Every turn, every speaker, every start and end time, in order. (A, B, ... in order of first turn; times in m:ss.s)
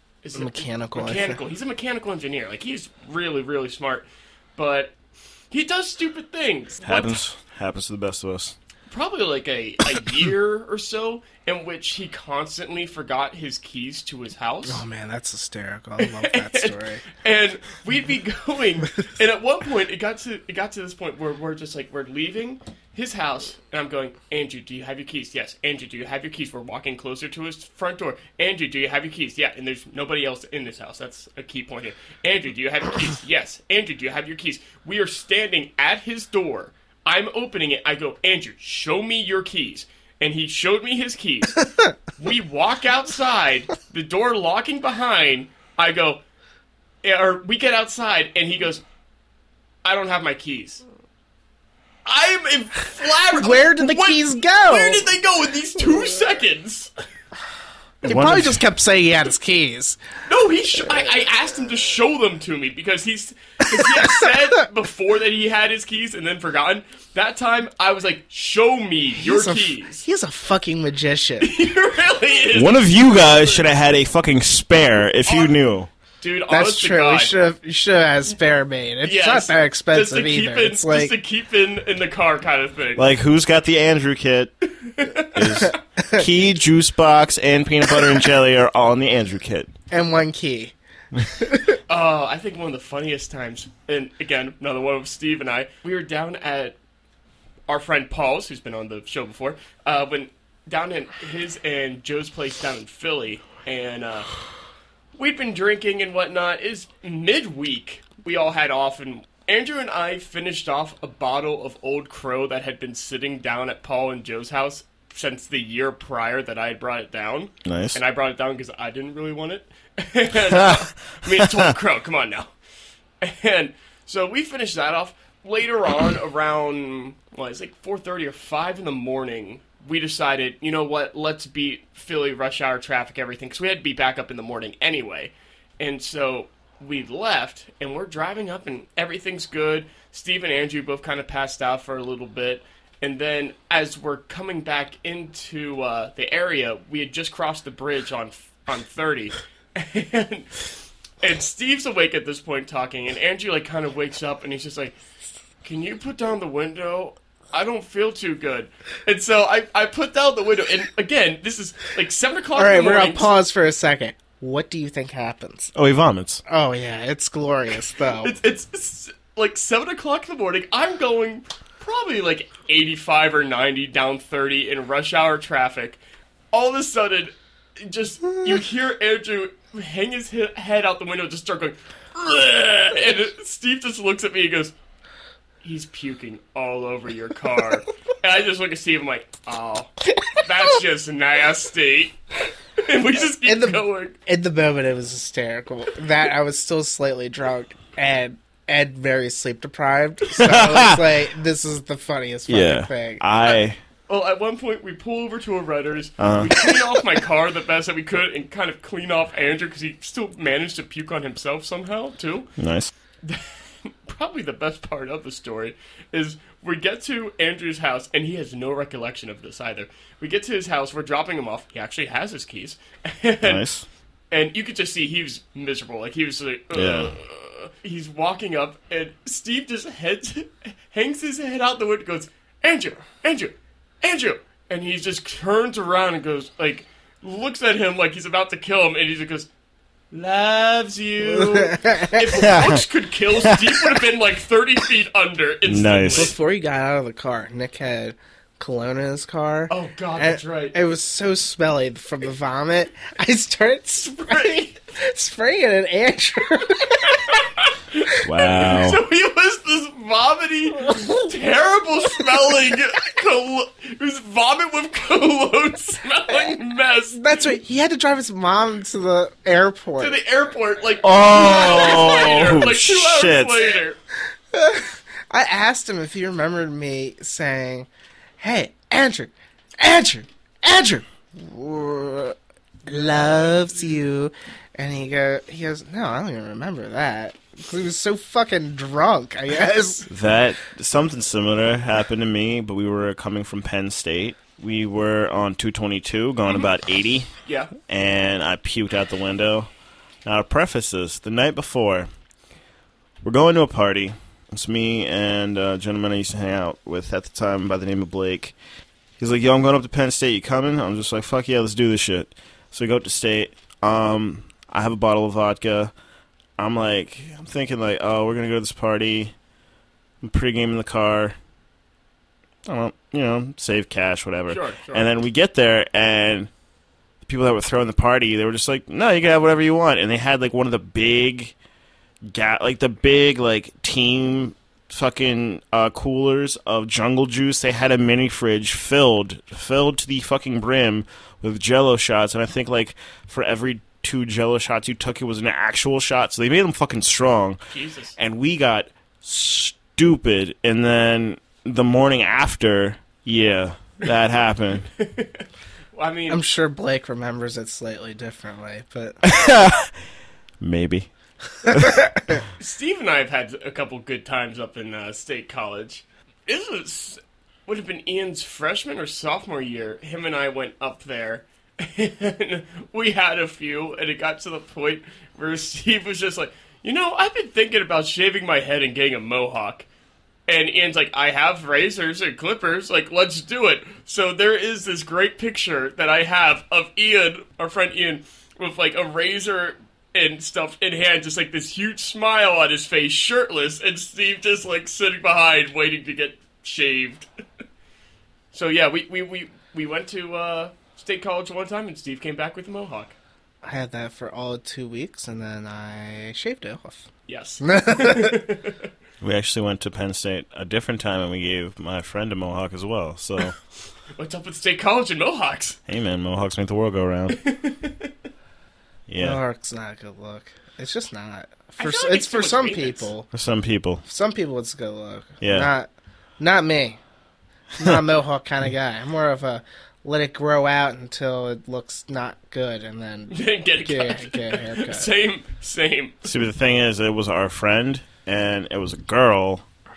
0:00.2-0:05.0 A
0:00.3-0:01.4 B
0:05.5-0:07.2 A
0:06.8-0:08.6 C
0:08.9-0:14.8 A
0:14.7-0:17.0 B
0:16.0-0:46.2 A
0:47.0-0:48.8 A
0:49.8-0:50.8 A
0:52.1-0:56.9 A
0:53.3-0:55.1 B
0:58.0-0:58.6 C
0:58.0-1:00.0 B
1:00.3-1:10.0 A
1:03.7-1:04.2 B
1:09.2-1:11.5 B
1:11.4-1:13.6 A
1:12.5-1:15.9 C
1:15.3-1:15.5 A
1:16.2-1:17.5 A
1:16.5-1:21.2 B
1:19.0-1:23.1 A
1:23.0-1:24.5 C
1:24.8-1:25.7 A
1:25.3-1:29.7 C
1:29.9-1:31.8 B
1:31.9-1:36.8 A
1:37.7-1:44.3 A
1:45.2-2:02.5 A
1:57.6-1:58.0 C
2:03.2-2:35.0 A
2:35.6-2:43.3 A
2:42.6-2:45.7 B
2:45.8-2:46.4 C
2:46.5-2:48.3 B
2:48.2-2:56.0 A
2:56.5-3:04.7 A
3:05.6-3:12.2 A
3:12.8-3:14.2 A
3:13.3-3:23.2 B
3:20.3-3:21.0 C
3:22.5-3:23.8 C
3:24.1-3:32.5 A
3:26.2-3:26.5 C
3:32.6-3:32.9 C
3:33.2-3:43.6 A
3:43.4-3:43.9 C
3:44.3-3:59.5 A
3:46.7-3:47.1 C
4:00.1-4:06.3 A
4:01.3-4:02.7 B
4:02.4-4:02.8 C
4:05.7-4:06.3 C
4:06.1-4:17.3 B
4:09.7-4:10.8 A
4:14.2-4:14.7 A
4:17.3-4:27.2 A
4:18.2-4:19.0 C
4:27.2-4:30.2 B
4:30.0-4:34.0 A
4:31.0-4:33.6 C
4:34.5-4:37.9 B
4:38.4-4:50.1 B
4:50.1-4:59.7 C
4:57.5-4:57.7 A
5:00.2-5:02.1 C
5:03.2-5:08.6 C
5:09.2-5:15.9 C
5:16.6-5:19.3 C
5:20.2-5:21.4 C
5:22.7-5:26.5 C
5:24.5-5:25.1 A
5:27.2-5:31.6 C
5:32.3-5:47.6 C
5:47.7-5:48.2 A
5:48.2-5:54.9 C
5:55.0-5:56.4 A
5:56.3-5:59.2 B
5:59.2-5:59.9 C
6:00.6-6:01.1 C
6:01.6-6:02.4 B
6:01.7-6:02.0 C
6:02.6-6:19.9 A
6:20.5-6:37.3 A
6:38.5-6:43.2 A
6:43.6-6:47.1 B
6:47.3-6:48.8 A
6:47.6-6:48.4 B
6:49.2-6:53.6 C
6:54.2-6:55.8 A
6:55.9-6:57.4 C
6:57.4-6:58.1 A
6:59.1-6:59.4 C
6:59.2-7:03.3 B
7:01.8-7:03.1 A
7:03.3-7:04.0 C
7:04.1-7:07.0 B
7:05.4-7:05.7 C
7:07.8-7:15.1 B
7:13.3-7:16.3 A
7:16.2-7:19.6 C